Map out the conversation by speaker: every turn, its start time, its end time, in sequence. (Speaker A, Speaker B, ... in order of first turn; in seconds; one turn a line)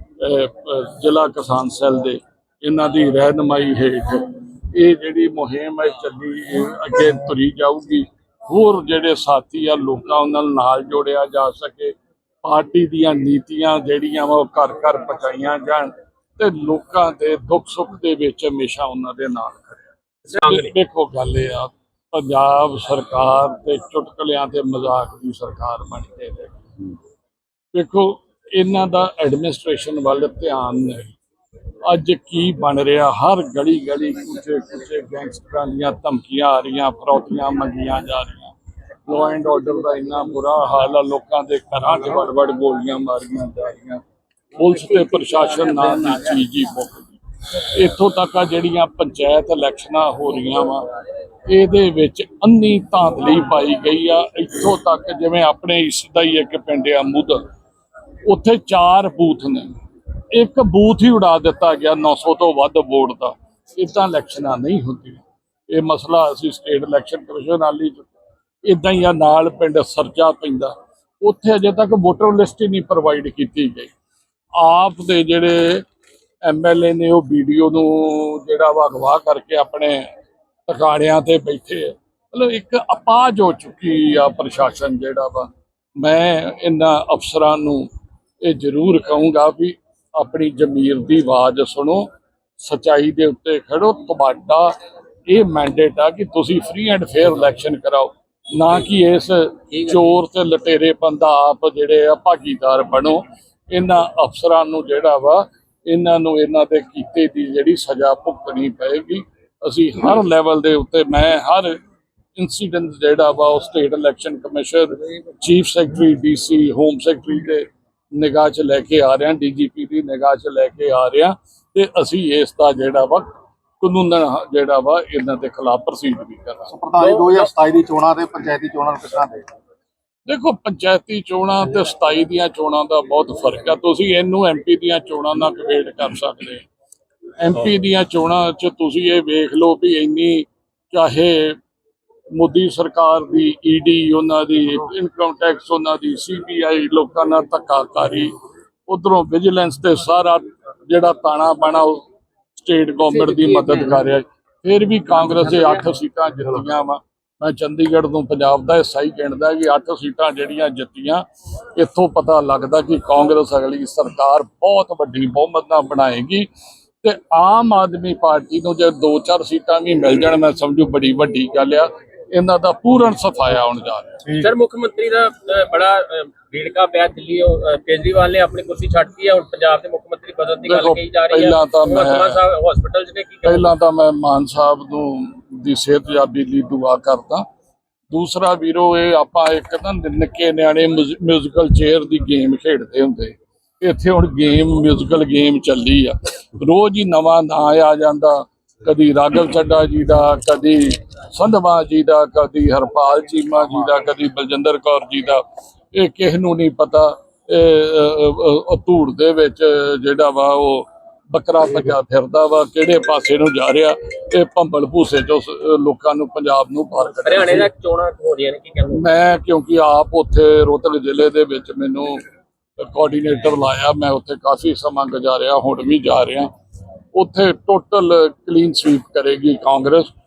Speaker A: 0.2-19.8
Speaker B: 20.3-20.7
Speaker A: 20.4-26.6
Speaker A: 27.7-31.1
Speaker A: 31.9-38.5
Speaker A: 39.1-44.0
Speaker A: 44.5-50.9
Speaker A: 51.5-57.4
Speaker A: 58.3-59.7
Speaker A: 60.3-68.1
Speaker A: 68.6-73.9
Speaker A: 74.6-75.8
Speaker A: 76.5-80.1
Speaker A: 80.7-87.9
Speaker A: 88.4-92.1
Speaker A: 92.6-94.8
Speaker A: 95.3-111.8
Speaker A: 112.4-126.7
Speaker C: 126.7-129.5
Speaker B: 127.0-127.3
Speaker A: 130.3-136.7
Speaker A: 137.4-141.6
Speaker A: 142.4-148.4
Speaker A: 148.9-152.0
Speaker A: 152.6-161.2
Speaker A: 161.8-166.5
Speaker A: 167.0-174.4
Speaker B: 174.4-183.7
Speaker A: 180.6-182.4
Speaker A: 183.4-187.5
Speaker A: 188.1-217.7
Speaker B: 217.2-219.1
Speaker A: 218.9-222.2
Speaker A: 222.8-226.5
Speaker A: 227.1-230.1